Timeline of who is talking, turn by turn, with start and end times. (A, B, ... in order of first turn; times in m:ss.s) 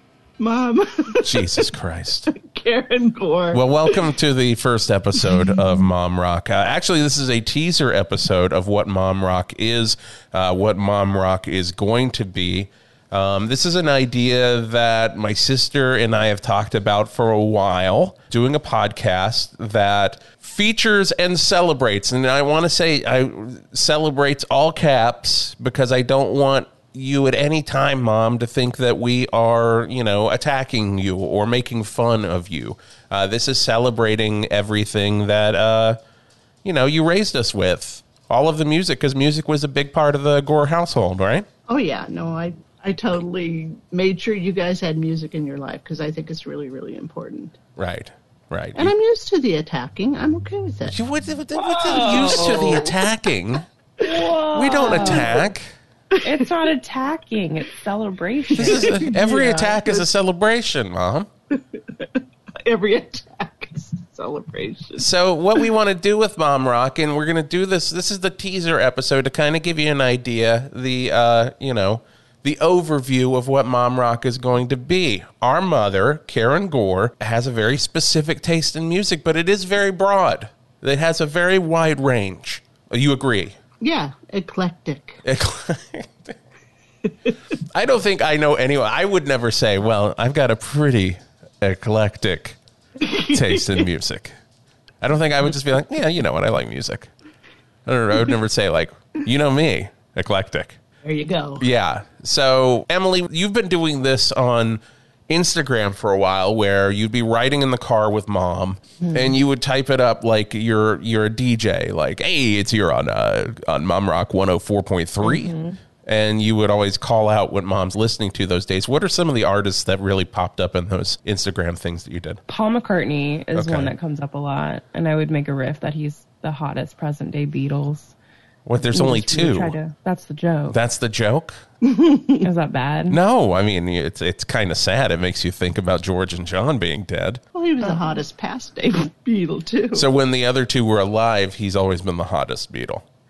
0:00.4-0:01.7 A
0:01.2-0:02.3 B
0:02.3-0:04.1 A
0:03.5-0:36.0 B
0:36.6-0:41.5 B
0:41.7-0:47.6 A
0:47.8-0:48.9 B
0:48.7-0:51.0 A
0:50.9-0:53.6 B
0:51.5-0:52.9 C
0:54.0-0:55.4 C
0:54.5-0:55.7 B
0:54.8-0:55.3 A
0:56.1-0:56.4 A
0:56.2-0:59.0 C
0:58.5-1:01.3 B
0:58.6-1:00.1 A
1:01.7-1:02.1 A
1:02.6-1:05.1 A
1:05.0-1:23.6 B
1:23.8-1:25.2 A
1:25.2-1:26.3 B
1:27.7-1:32.6 B
1:33.0-1:33.8 A
1:33.2-1:34.3 B
1:35.0-1:37.1 B
1:37.8-1:40.8 B
1:41.0-1:41.6 A
1:41.6-2:02.4 B
1:55.2-1:55.8 C
2:02.5-2:08.1 C
2:03.5-2:03.9 B
2:08.6-2:09.8 B
2:08.8-2:10.8 C
2:10.7-2:11.6 B
2:11.8-2:12.4 A
2:12.4-2:13.2 C
2:13.1-2:17.4 B
2:17.5-2:20.1 A
2:17.8-2:18.2 C
2:19.9-2:23.0 B